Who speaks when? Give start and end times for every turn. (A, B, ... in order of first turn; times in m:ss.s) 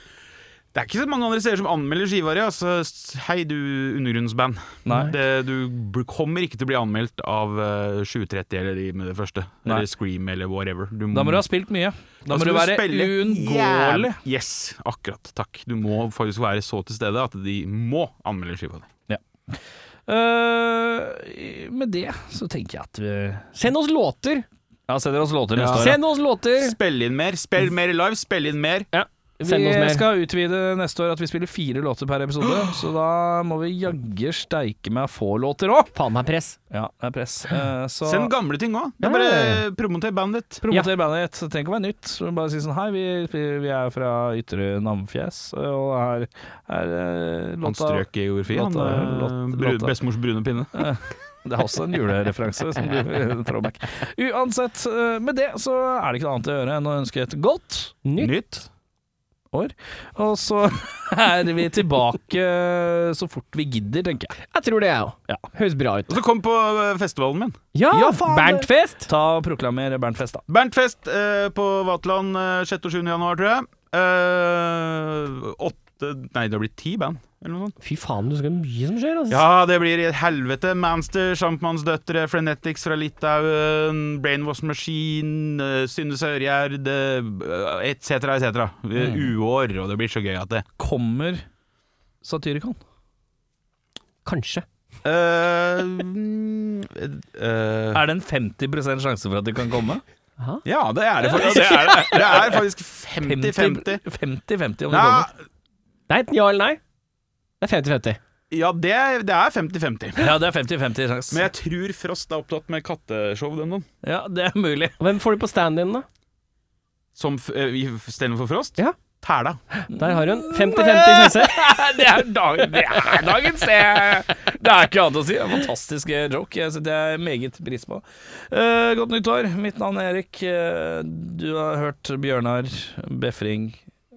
0:00.7-0:11.4 A
0:04.8-0:05.1 B
0:11.1-0:14.2 B
0:12.3-0:18.9 A
0:19.1-0:23.5 B
0:23.5-0:24.4 C
0:24.9-0:26.0 B
0:25.5-0:26.0 A
0:25.7-0:26.8 C
0:26.6-0:28.9 A
0:28.9-0:30.1 C
0:29.4-0:35.9 B
0:35.9-0:36.6 C
0:36.7-0:38.3 B
0:38.0-0:40.6 A
0:39.0-0:39.6 C
0:40.6-0:50.0 B
0:47.6-0:50.9 A
0:50.8-0:58.0 B
0:58.0-0:58.4 C
0:58.2-0:58.6 A
0:59.5-1:04.3 B
1:04.5-1:06.2 C
1:06.1-1:07.6 A
1:07.7-1:09.1 C
1:07.9-1:10.4 B
1:10.5-1:17.8 A
1:17.8-1:19.4 C
1:19.3-1:30.6 A
1:29.0-1:29.3 B
1:30.8-1:31.4 B
1:32.2-1:32.8 B
1:34.2-1:34.6 C
1:35.0-1:38.0 A
1:37.9-1:40.0 B
1:40.4-1:40.6 C
1:40.6-1:44.0 A
1:41.4-1:42.6 B
1:43.2-1:45.3 B
1:44.9-1:45.3 A
1:46.1-1:46.8 C
1:47.6-1:48.2 C
1:48.5-1:50.4 A
1:50.2-1:51.4 B
1:51.3-1:53.9 A
1:54.0-1:55.0 B
1:55.0-1:56.0 C
1:57.1-1:59.6 A
1:59.7-2:01.6 C
2:00.0-2:13.8 B